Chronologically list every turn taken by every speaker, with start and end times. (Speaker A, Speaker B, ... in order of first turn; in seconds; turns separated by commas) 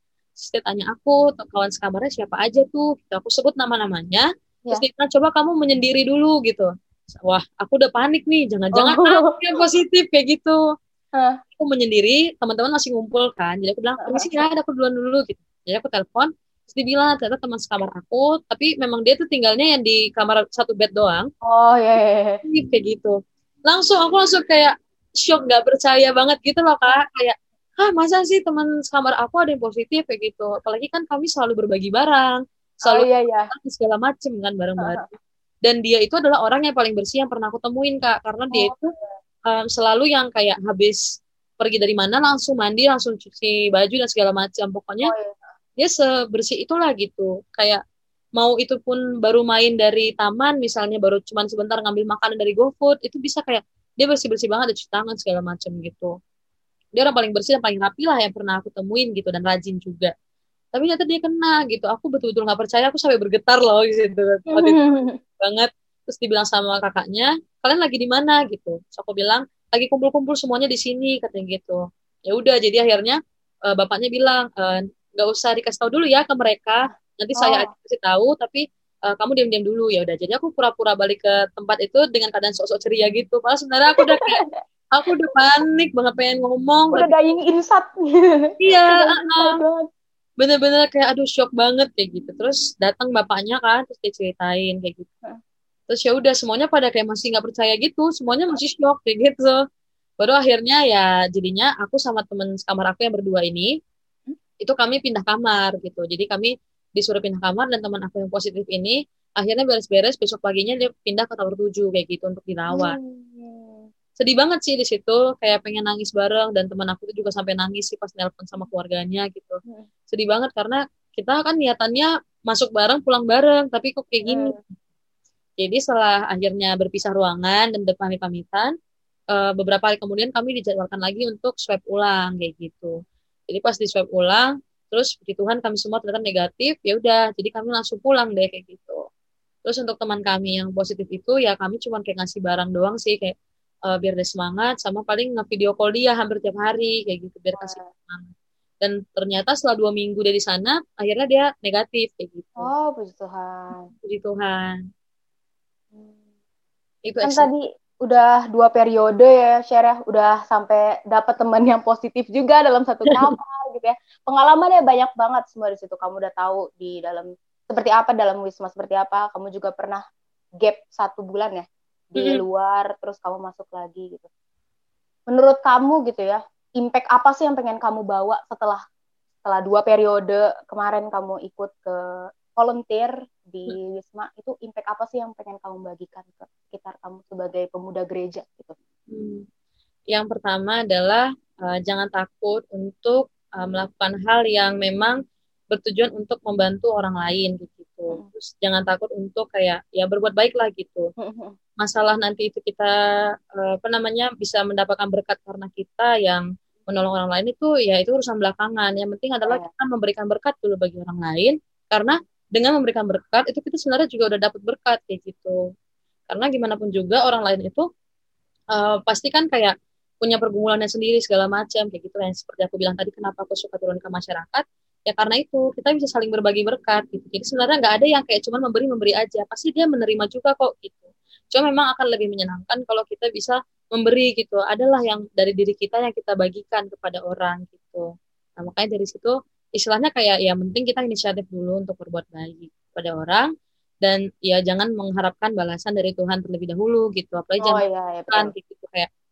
Speaker A: 0.4-10.6, Speaker B: 8.8-9.4, Speaker A: 11.5-21.3, Speaker B: 14.0-14.3, Speaker B: 21.4-22.4, Speaker A: 22.5-38.9, Speaker B: 32.9-33.5, Speaker B: 34.8-35.1, Speaker B: 38.5-39.1, Speaker A: 39.5-41.0, Speaker A: 41.6-45.1, Speaker B: 45.0-45.4, Speaker A: 45.8-47.8, Speaker A: 48.4-56.1, Speaker A: 57.0-60.1, Speaker A: 60.7-73.2, Speaker B: 64.5-65.2, Speaker A: 73.7-87.1, Speaker B: 77.4-77.7, Speaker B: 84.1-84.6, Speaker B: 86.9-89.9, Speaker A: 88.6-89.6, Speaker A: 90.4-95.1, Speaker A: 95.9-99.6, Speaker A: 100.2-103.7, Speaker A: 104.6-113.0, Speaker B: 112.7-113.9, Speaker A: 114.2-124.6, Speaker B: 124.2-124.6, Speaker A: 125.6-128.7, Speaker A: 129.3-132.9, Speaker A: 133.5-139.0, Speaker A: 139.6-143.3, Speaker A: 143.9-152.7, Speaker B: 147.6-147.9, Speaker B: 152.6-153.9, Speaker A: 153.9-154.8, Speaker B: 155.9-156.2, Speaker A: 157.1-157.5, Speaker B: 157.2-170.0, Speaker B: 170.6-174.3, Speaker B: 175.3-178.8, Speaker B: 179.4-188.7, Speaker A: 189.1-189.4, Speaker A: 190.1-195.2, Speaker A: 195.7-201.1, Speaker B: 201.2-201.6, Speaker A: 201.8-202.9, Speaker A: 203.5-215.6, Speaker A: 216.3-217.8, Speaker A: 218.7-238.1, Speaker A: 238.6-243.5, Speaker A: 244.0-249.1, Speaker B: 247.6-248.5